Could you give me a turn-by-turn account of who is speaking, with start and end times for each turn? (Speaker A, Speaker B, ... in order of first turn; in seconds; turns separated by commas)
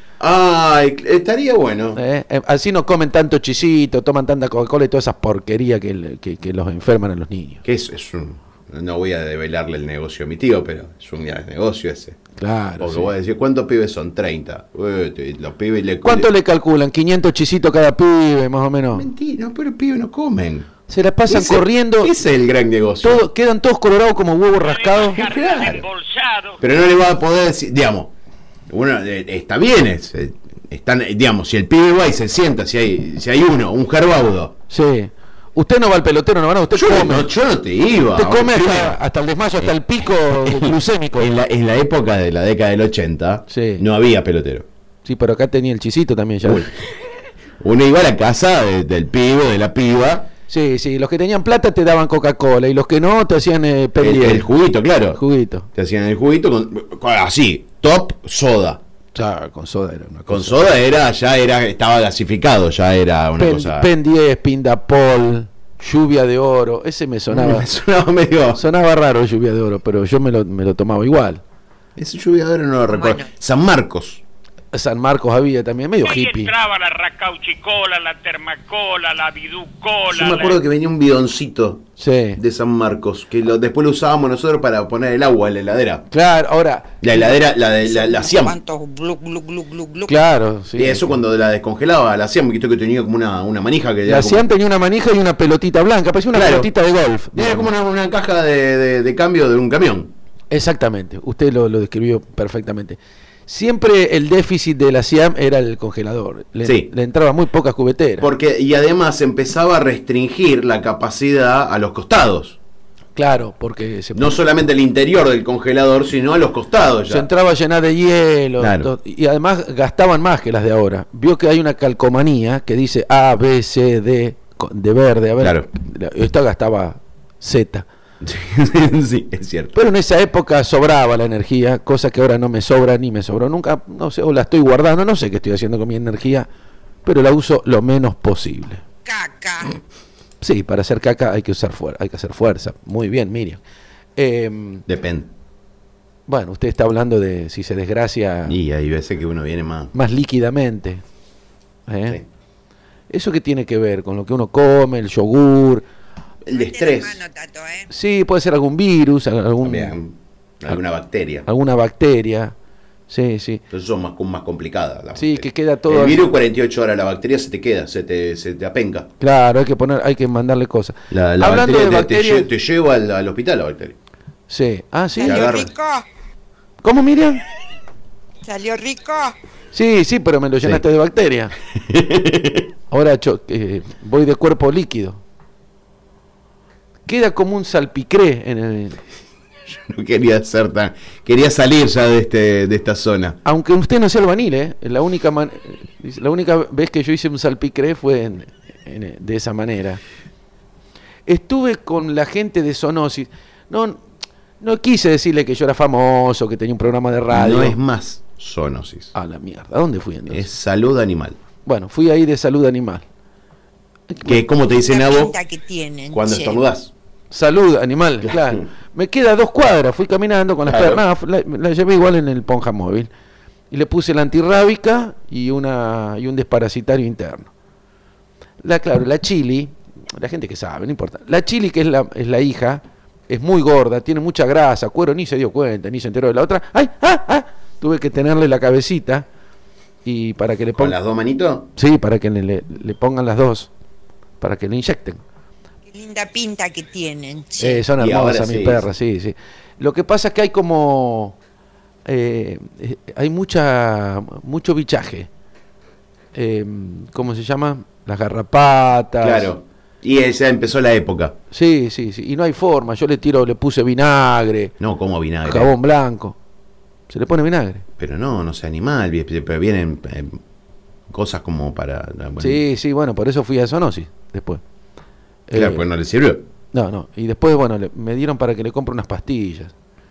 Speaker A: 0.2-2.0, Speaker B: 1.9-7.6, Speaker A: 7.6-12.2, Speaker B: 12.4-13.1, Speaker A: 12.8-16.3, Speaker B: 16.0-19.1, Speaker A: 18.9-20.7, Speaker B: 20.9-22.1, Speaker A: 21.3-23.3, Speaker B: 23.0-25.2, Speaker C: 24.6-26.6, Speaker A: 25.1-25.9, Speaker A: 26.6-28.1, Speaker A: 28.7-34.5, Speaker B: 34.7-37.3, Speaker A: 36.7-39.0, Speaker B: 38.1-41.3, Speaker A: 40.4-44.7, Speaker B: 43.5-43.9, Speaker B: 45.0-46.7, Speaker A: 46.4-46.7, Speaker A: 47.6-50.3, Speaker B: 50.5-54.5, Speaker A: 54.0-55.2, Speaker B: 55.1-55.7, Speaker A: 55.7-58.8, Speaker B: 59.1-60.7, Speaker A: 60.3-63.9, Speaker B: 63.4-67.7, Speaker A: 67.3-68.6, Speaker B: 68.5-71.4, Speaker A: 72.0-74.2, Speaker D: 72.9-73.3, Speaker B: 74.7-76.5, Speaker C: 76.0-80.6, Speaker A: 80.1-86.0, Speaker B: 82.0-82.4, Speaker B: 86.1-87.0, Speaker A: 87.0-88.6, Speaker D: 87.8-90.2, Speaker B: 90.1-91.2, Speaker A: 90.8-94.5, Speaker B: 94.0-97.7, Speaker A: 96.3-96.7, Speaker A: 97.3-100.1, Speaker B: 100.5-108.3, Speaker A: 106.6-106.9, Speaker A: 108.2-112.6, Speaker B: 113.2-114.4, Speaker A: 114.1-117.3, Speaker B: 117.1-127.9, Speaker A: 118.6-118.9, Speaker A: 125.4-125.7, Speaker A: 128.2-129.8, Speaker B: 129.7-136.5, Speaker B: 137.0-138.8, Speaker D: 139.0-139.8, Speaker B: 140.4-143.6, Speaker B: 144.2-144.8, Speaker A: 144.9-145.3, Speaker B: 146.3-148.6, Speaker A: 148.5-149.9, Speaker B: 149.9-151.0, Speaker B: 151.9-152.2, Speaker B: 153.1-155.8, Speaker A: 156.4-157.2, Speaker D: 156.5-157.9, Speaker B: 157.9-159.9, Speaker A: 159.6-161.5, Speaker B: 161.4-162.5, Speaker B: 163.1-163.6, Speaker A: 163.7-169.1, Speaker B: 165.1-166.3, Speaker B: 169.2-172.5, Speaker A: 171.1-174.0, Speaker B: 174.5-175.5, Speaker D: 175.1-176.1, Speaker A: 175.2-175.7, Speaker B: 176.8-177.4, Speaker D: 178.4-179.4, Speaker B: 179.7-181.5, Speaker A: 181.7-182.7, Speaker B: 182.9-185.2, Speaker B: 187.1-189.0, Speaker A: 189.7-193.4, Speaker B: 193.4-200.0, Speaker B: 201.3-204.0, Speaker B: 204.6-207.8, Speaker A: 207.3-209.1, Speaker B: 209.1-210.5, Speaker A: 210.3-211.4, Speaker B: 211.6-213.0, Speaker B: 214.1-214.4, Speaker A: 214.2-215.3, Speaker D: 214.8-216.6, Speaker A: 216.1-216.9, Speaker B: 217.3-223.1, Speaker A: 218.2-218.7, Speaker A: 220.6-221.0, Speaker B: 223.7-227.5, Speaker B: 228.6-239.2, Speaker B: 240.0-241.0, Speaker A: 240.8-241.7, Speaker B: 241.8-243.7, Speaker B: 244.4-245.2, Speaker D: 245.9-247.8, Speaker B: 247.6-251.4, Speaker A: 248.0-248.8, Speaker B: 252.1-255.3, Speaker B: 256.3-259.5, Speaker A: 259.2-261.4, Speaker B: 261.5-264.7, Speaker A: 264.8-265.7, Speaker B: 265.4-266.4, Speaker B: 267.1-267.8, Speaker A: 268.0-270.4, Speaker A: 271.1-272.6, Speaker B: 272.4-274.6, Speaker B: 275.5-275.8, Speaker A: 275.5-276.4, Speaker B: 276.7-279.7